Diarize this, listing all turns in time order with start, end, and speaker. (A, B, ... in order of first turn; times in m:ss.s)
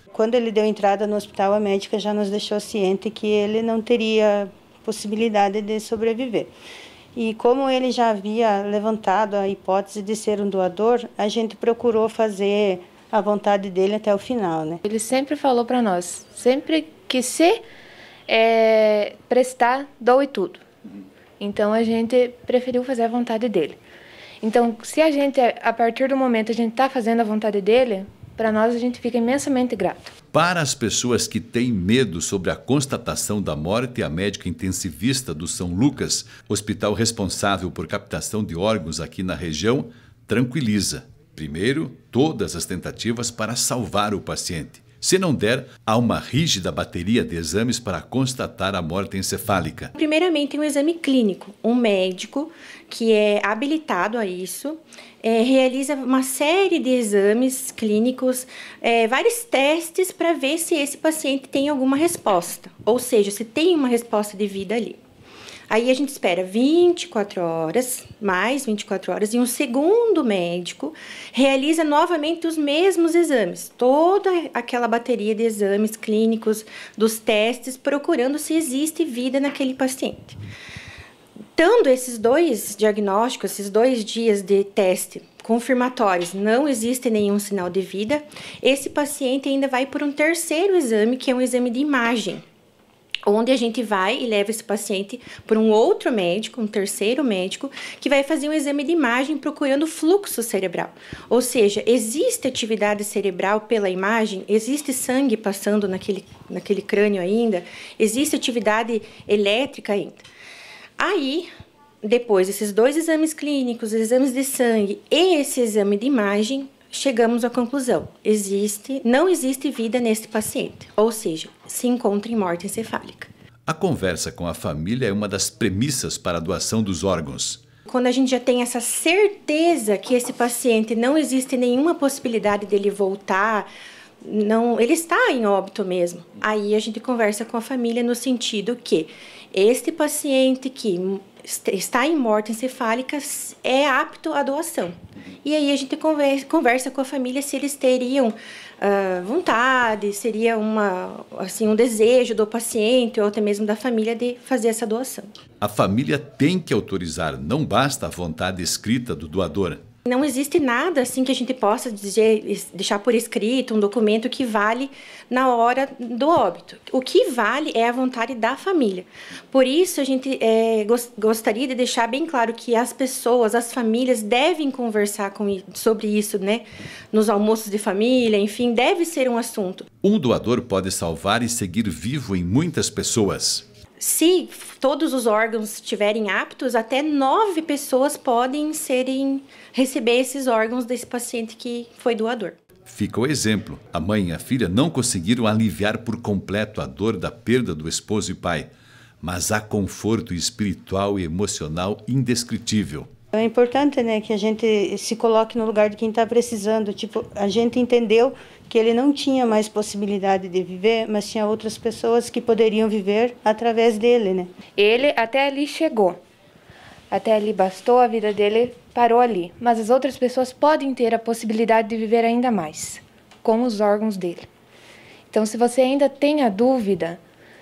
0:00.1-0:06.5 A
0:07.1-0:14.8 A
0:14.8-0:17.6 B
0:18.3-0:20.6 B
0:21.4-0:23.8 B
0:24.4-0:30.1 B
0:30.3-0:49.9 C
0:49.9-1:05.0 D
1:05.7-1:20.4 D
1:21.6-1:32.4 D
1:33.2-1:50.2 D
1:51.0-1:51.5 D
1:52.0-2:03.3 D
2:03.7-2:07.6 C
2:07.9-2:13.7 D
2:14.2-2:35.3 D
2:35.6-2:39.8 C
2:40.0-2:59.8 D
3:00.0-3:03.6 C
3:04.0-3:12.6 D
3:12.9-3:18.7 C
3:19.2-3:23.1 C
3:23.3-3:34.5 A
3:34.8-3:36.2 B
3:37.1-3:44.5 B
3:45.3-3:47.2 B